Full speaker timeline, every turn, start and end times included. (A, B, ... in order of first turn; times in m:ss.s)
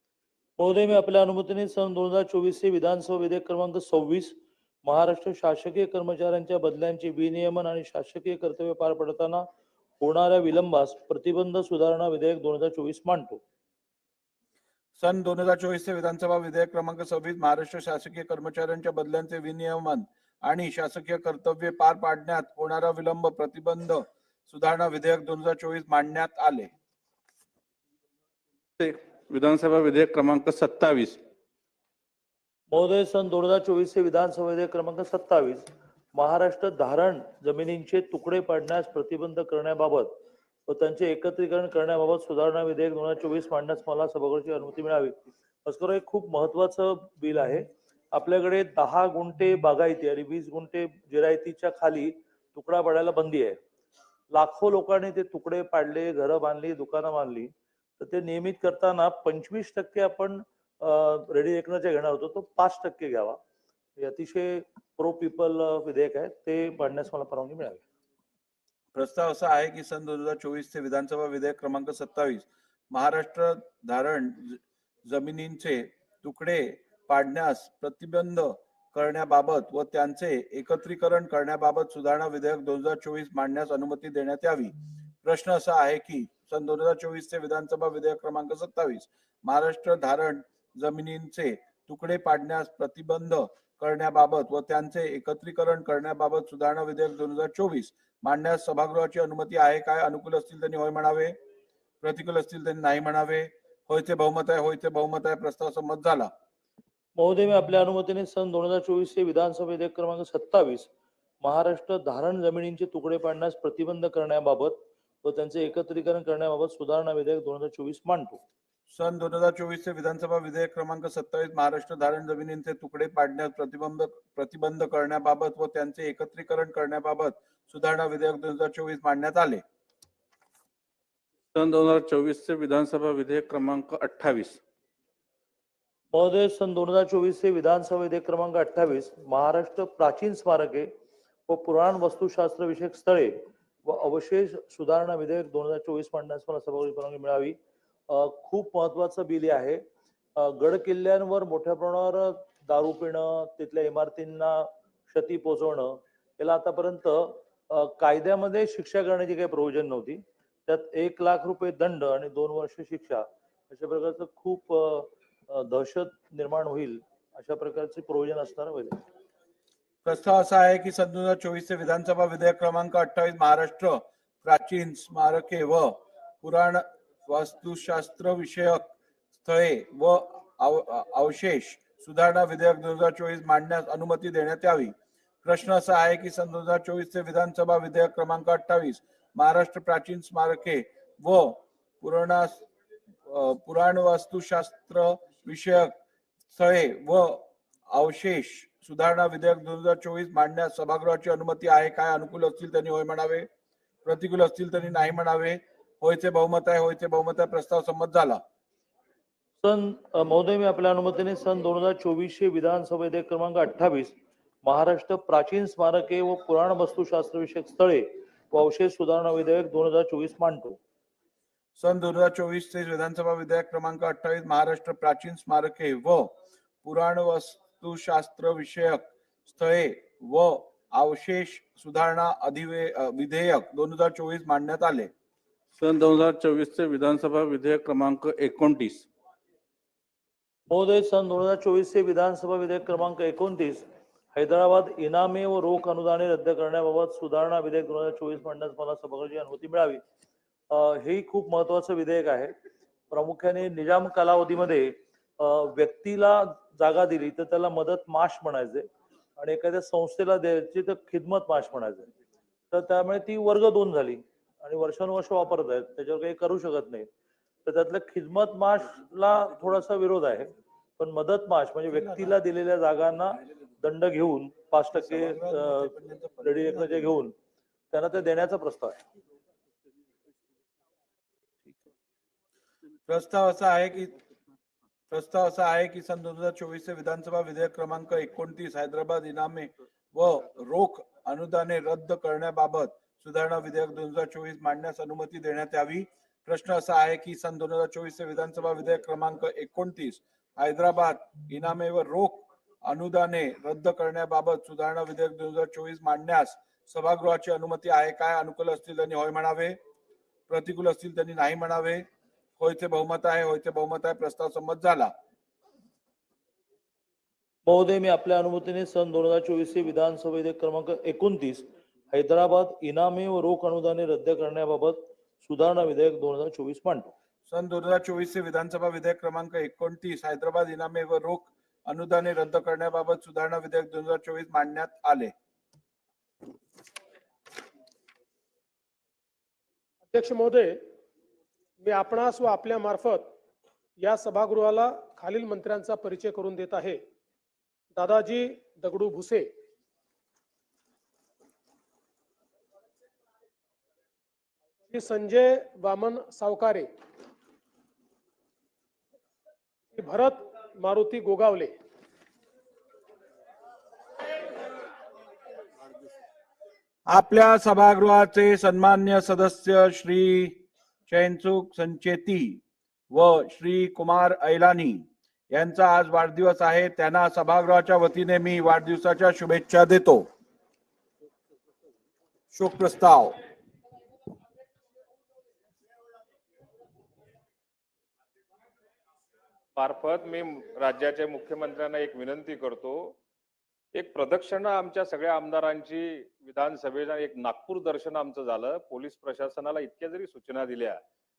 0:00.6-0:09.5 A
0:10.0-0:13.4 A
0:15.0-0:26.7 B
0:28.8-0:31.2 C
0:32.7-0:40.1 A
0:40.7-0:45.1 A
0:45.6-0:53.6 A
0:54.3-1:03.4 A
1:04.0-1:07.8 A
1:08.9-1:41.4 B
1:42.0-1:46.3 B
1:47.2-1:50.9 A
1:51.4-1:58.4 A
1:58.9-2:09.6 B
2:11.5-2:14.6 C
2:16.1-2:20.9 A
2:21.5-2:27.6 A
2:28.1-2:29.8 A
2:30.4-2:49.0 A
2:50.0-2:58.9 B
2:59.4-3:12.6 B
3:13.2-3:16.0 B
3:16.5-3:23.5 B
3:24.0-3:28.4 B
3:29.6-3:40.8 A
3:41.8-3:55.1 B
3:55.8-3:59.1 C
4:00.7-4:10.0 A
4:10.7-4:12.5 A
4:13.1-4:22.1 A
4:22.7-4:27.1 A
4:27.6-4:37.3 A
4:34.9-4:37.0 B
4:37.9-4:39.0 A
4:43.1-4:44.2 B
4:45.1-5:09.8 B
5:10.5-5:12.0 B
5:12.6-5:15.1 B
5:17.6-5:27.1 A
5:27.5-5:35.3 B
5:40.1-5:40.8 D
5:41.8-5:43.3 D
5:44.0-5:47.0 D
5:47.9-5:49.5 D
5:54.9-5:56.9 D
5:59.9-6:01.7 D
6:07.1-6:20.3 B
6:22.5-6:23.4 B
6:29.8-6:33.2 E
6:33.9-6:41.0 E